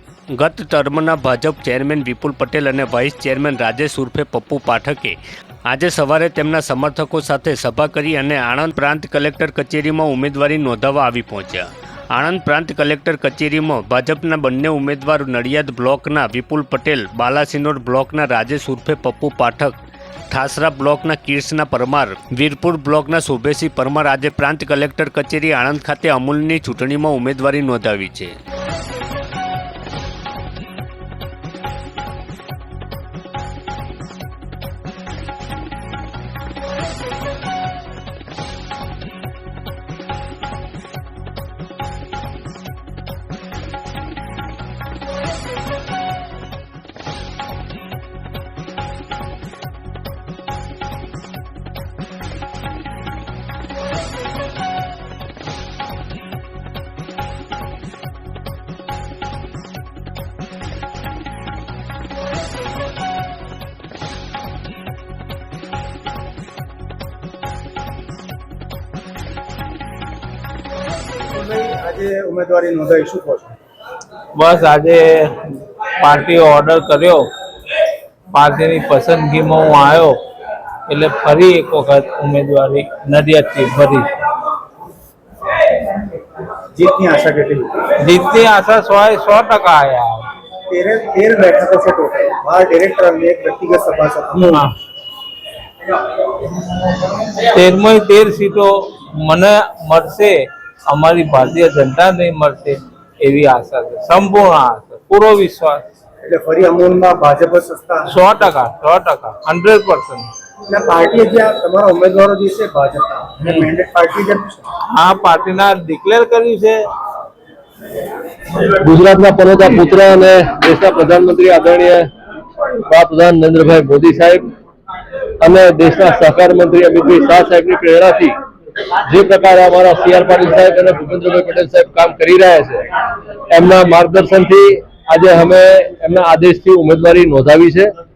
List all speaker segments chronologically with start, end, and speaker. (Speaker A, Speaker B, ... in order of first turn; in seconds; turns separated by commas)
Speaker A: 0.4-5.2, Speaker A: 5.7-19.8, Speaker A: 20.3-28.4, Speaker B: 71.3-73.5, Speaker C: 74.3-77.3, Speaker C: 78.3-80.2, Speaker C: 80.9-84.1, Speaker B: 86.7-87.8, Speaker C: 88.0-90.3, Speaker B: 90.7-94.7, Speaker C: 97.0-105.9, Speaker B: 106.2-108.3, Speaker C: 108.1-110.3, Speaker B: 110.7-114.7, Speaker C: 114.9-116.9, Speaker D: 118.6-122.1, Speaker D: 122.9-124.5, Speaker D: 125.4-128.3, Speaker D: 129.1-132.9, Speaker D: 133.5-137.9